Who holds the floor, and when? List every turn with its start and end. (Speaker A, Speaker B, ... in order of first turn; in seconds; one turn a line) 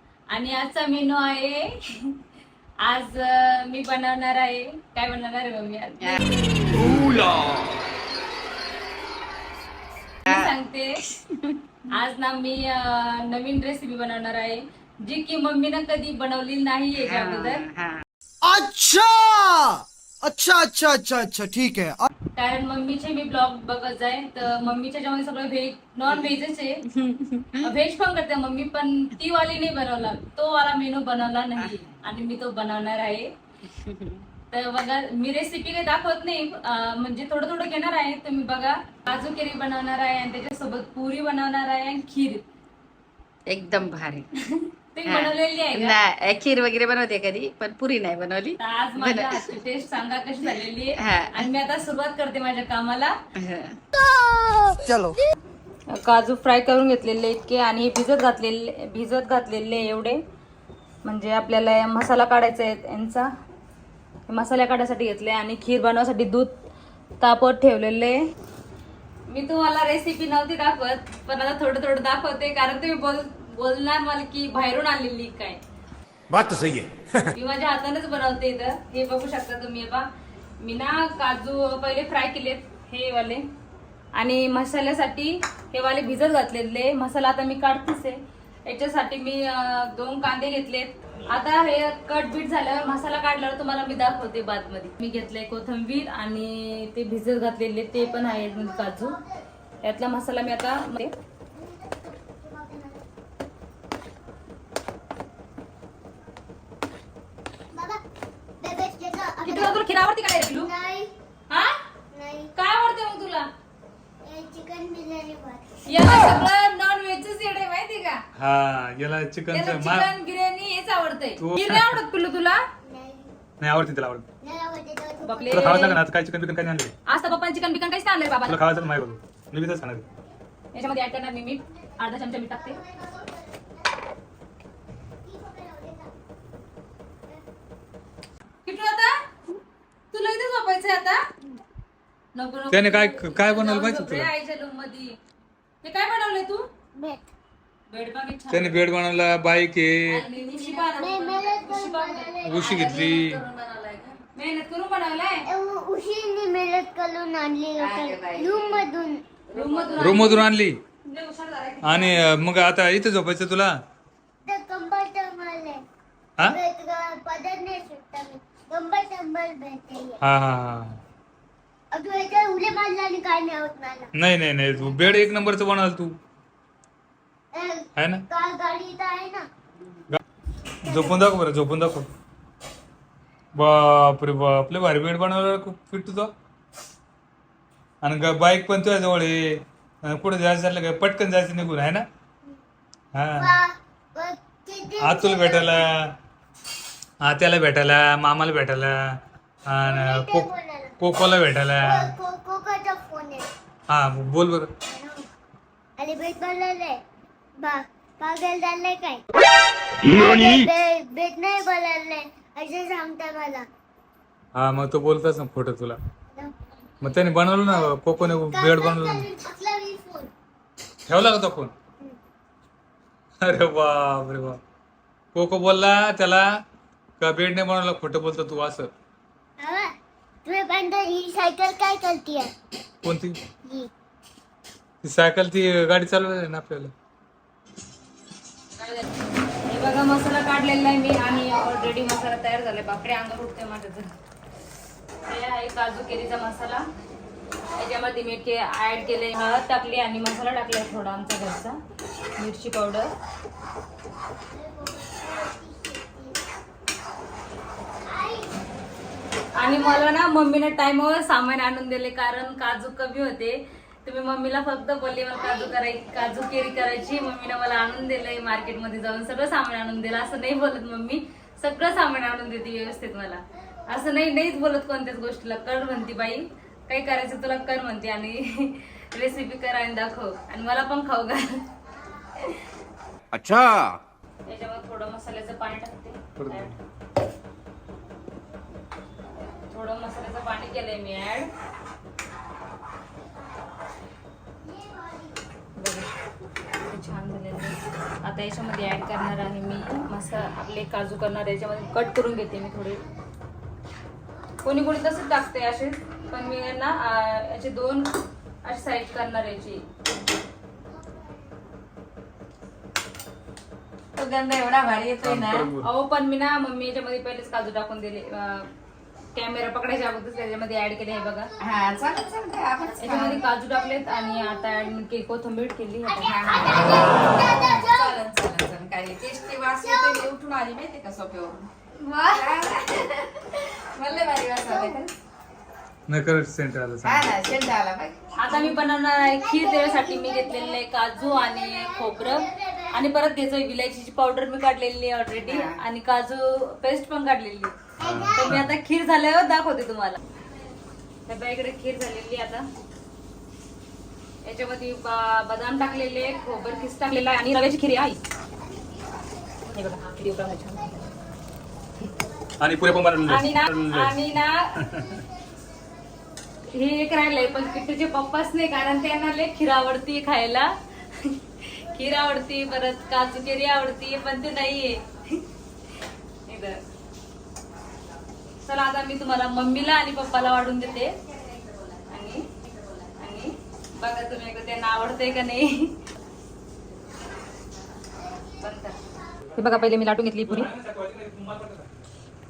Speaker A: 0.3-2.1
Speaker A: 2.8-6.2
Speaker B: 6.7-7.7
Speaker A: 10.3-11.0
Speaker A: 11.9-17.6
Speaker C: 17.0-18.0
Speaker D: 18.4-22.1
Speaker A: 22.4-26.8
Speaker C: 27.0-27.7
Speaker A: 27.6-33.3
Speaker C: 33.8-34.2
Speaker A: 34.5-42.4
Speaker C: 43.5-44.3
Speaker A: 44.5-46.0
Speaker C: 45.1-49.4
Speaker A: 48.6-53.1
Speaker C: 51.1-51.4
Speaker C: 53.4-53.7
Speaker D: 54.2-55.1
Speaker A: 55.9-60.2
Speaker A: 61.0-63.3
Speaker A: 64.3-66.5
Speaker A: 67.2-68.2
Speaker A: 69.3-75.6
Speaker B: 76.3-77.0
Speaker A: 77.3-80.1
Speaker A: 80.6-83.4
Speaker A: 84.2-99.2
Speaker E: 98.0-99.3
Speaker A: 99.8-101.1
Speaker E: 101.5-103.0
Speaker E: 107.7-108.0
Speaker E: 108.6-109.8
Speaker A: 109.5-110.7
Speaker E: 110.5-111.1
Speaker E: 112.1-112.5
Speaker A: 112.5-113.5
Speaker E: 114.2-115.7
Speaker A: 115.9-118.2
Speaker F: 118.4-120.1
Speaker A: 119.5-122.6
Speaker F: 121.4-122.0
Speaker E: 122.8-123.4
Speaker F: 123.6-124.2
Speaker E: 124.4-125.9
Speaker A: 125.2-126.0
Speaker F: 125.5-126.9
Speaker A: 127.1-128.6
Speaker F: 128.5-130.1
Speaker A: 130.7-132.8
Speaker E: 132.3-134.0
Speaker E: 135.2-136.1
Speaker A: 138.7-139.1
Speaker A: 140.1-141.2
Speaker A: 142.3-145.2
Speaker F: 142.7-144.3
Speaker A: 145.8-146.7
Speaker E: 146.9-147.3
Speaker A: 147.9-148.9
Speaker F: 148.5-150.2
Speaker A: 150.1-153.2
Speaker E: 150.8-153.1
Speaker F: 152.4-153.4
Speaker C: 153.6-153.9
Speaker A: 154.3-155.5
Speaker E: 155.5-159.4
Speaker C: 157.8-158.9
Speaker C: 159.5-160.0
Speaker A: 159.5-160.5
Speaker F: 160.0-160.8
Speaker A: 161.1-162.3
Speaker F: 161.8-163.7
Speaker E: 164.5-165.8
Speaker E: 166.4-170.2
Speaker F: 170.2-171.0
Speaker E: 171.9-174.1
Speaker F: 174.1-176.2
Speaker E: 177.5-179.5
Speaker F: 178.0-178.3
Speaker F: 180.8-182.1
Speaker E: 180.8-181.3
Speaker F: 183.6-186.3
Speaker F: 188.0-192.1
Speaker F: 193.2-193.6
Speaker E: 193.4-195.9
Speaker F: 195.0-196.1
Speaker F: 197.2-199.0
Speaker F: 199.7-202.1
Speaker E: 199.8-201.0
Speaker E: 201.8-203.5
Speaker F: 203.9-204.7
Speaker E: 204.9-205.2
Speaker E: 206.0-207.0
Speaker E: 207.6-209.2
Speaker B: 210.1-210.6
Speaker E: 210.1-213.7
Speaker F: 214.6-216.0
Speaker F: 217.0-219.3
Speaker E: 217.6-220.3
Speaker F: 221.1-221.7
Speaker F: 223.4-224.6
Speaker F: 225.3-226.5
Speaker F: 227.2-228.9
Speaker E: 229.6-229.9
Speaker E: 230.4-232.5
Speaker F: 233.0-233.4
Speaker F: 235.0-236.9
Speaker A: 239.7-244.1
Speaker A: 245.3-246.8
Speaker A: 247.8-251.8
Speaker A: 252.4-253.1
Speaker E: 254.5-256.5
Speaker E: 258.1-258.6
Speaker A: 259.6-281.6
Speaker E: 259.6-260.0
Speaker B: 283.3-284.0
Speaker A: 284.5-286.8
Speaker F: 286.4-286.8
Speaker A: 289.7-291.5
Speaker E: 294.6-295.4
Speaker A: 295.8-296.1
Speaker A: 296.9-303.0
Speaker A: 304.6-308.1
Speaker A: 308.6-309.8
Speaker C: 314.2-315.7
Speaker F: 315.2-315.9
Speaker A: 315.8-318.7
Speaker A: 319.4-321.5
Speaker C: 321.6-323.4
Speaker A: 323.0-327.0
Speaker E: 326.1-328.2
Speaker C: 326.3-331.7
Speaker E: 329.8-330.3
Speaker A: 332.0-332.5
Speaker C: 332.3-335.1
Speaker E: 334.7-335.0
Speaker F: 336.1-337.3
Speaker C: 337.1-338.8
Speaker A: 338.4-347.8
Speaker E: 339.2-343.0
Speaker E: 348.0-348.6
Speaker F: 348.2-348.6
Speaker A: 348.3-350.2
Speaker A: 351.3-352.7
Speaker A: 354.4-358.2
Speaker A: 359.7-361.1
Speaker F: 362.6-364.2
Speaker A: 363.3-364.7
Speaker F: 364.8-365.2
Speaker A: 366.7-375.4
Speaker A: 376.5-376.8
Speaker A: 378.6-381.2
Speaker A: 382.1-382.5
Speaker A: 383.2-385.9
Speaker A: 388.6-389.0
Speaker A: 389.6-390.7
Speaker F: 390.4-391.9